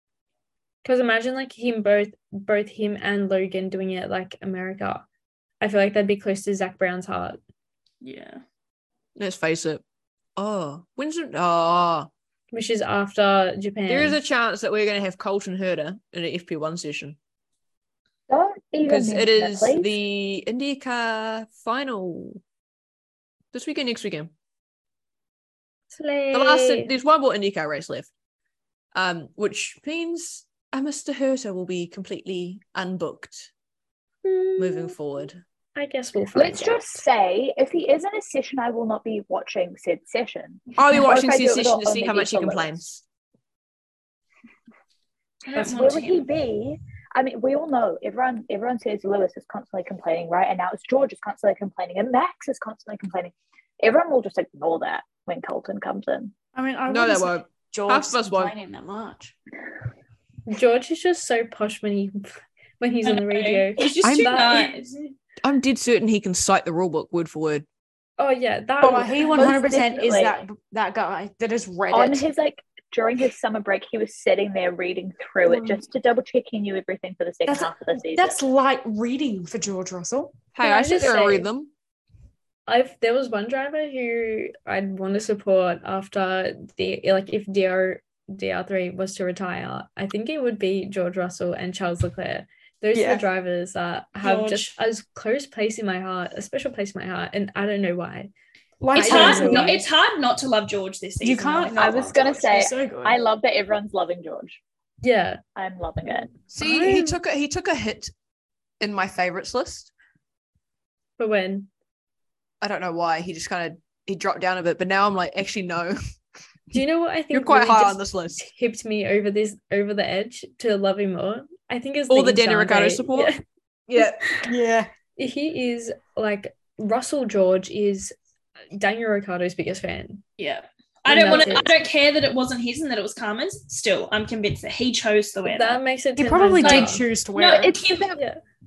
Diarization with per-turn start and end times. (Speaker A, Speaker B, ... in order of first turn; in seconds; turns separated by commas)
Speaker A: 0.8-5.0, Speaker A: 5.6-7.4, Speaker B: 8.0-8.4, Speaker C: 9.2-9.8, Speaker C: 10.4-12.1, Speaker A: 12.5-14.2, Speaker C: 13.9-17.2, Speaker D: 18.3-19.9, Speaker C: 18.9-22.4, Speaker C: 23.5-24.3, Speaker A: 25.9-26.9, Speaker C: 26.3-28.1, Speaker C: 28.9-33.5, Speaker A: 34.2-35.0, Speaker C: 34.6-35.4, Speaker A: 35.8-37.0, Speaker D: 36.4-42.7, Speaker C: 40.8-43.0, Speaker B: 45.5-46.3, Speaker D: 45.5-56.3, Speaker E: 56.5-59.3, Speaker C: 56.9-58.5, Speaker A: 60.5-64.8, Speaker B: 63.0-65.0, Speaker C: 64.0-64.4, Speaker C: 65.4-67.7, Speaker A: 68.2-69.6, Speaker E: 68.8-72.2, Speaker D: 69.3-70.4, Speaker D: 71.9-78.4, Speaker A: 75.5-75.8, Speaker E: 77.5-80.4, Speaker C: 80.5-81.7, Speaker A: 80.6-81.5, Speaker A: 82.7-98.3, Speaker E: 92.9-93.3, Speaker B: 94.2-94.7, Speaker E: 98.8-99.8, Speaker A: 98.9-99.8, Speaker B: 99.0-102.1, Speaker E: 101.2-103.2, Speaker D: 101.8-104.6, Speaker A: 105.0-105.4, Speaker D: 105.6-106.3, Speaker C: 106.5-108.1, Speaker A: 106.6-107.2, Speaker C: 108.8-109.9, Speaker A: 111.2-111.7, Speaker C: 112.6-116.0, Speaker A: 116.7-123.4, Speaker C: 117.3-118.5, Speaker C: 122.1-123.3, Speaker C: 123.9-124.3, Speaker A: 124.0-124.5, Speaker E: 124.4-124.9, Speaker A: 125.2-128.1, Speaker A: 128.7-130.2, Speaker B: 130.4-135.8, Speaker A: 131.1-131.7, Speaker A: 135.5-137.1, Speaker E: 136.2-137.8, Speaker B: 136.6-138.2, Speaker A: 138.1-138.4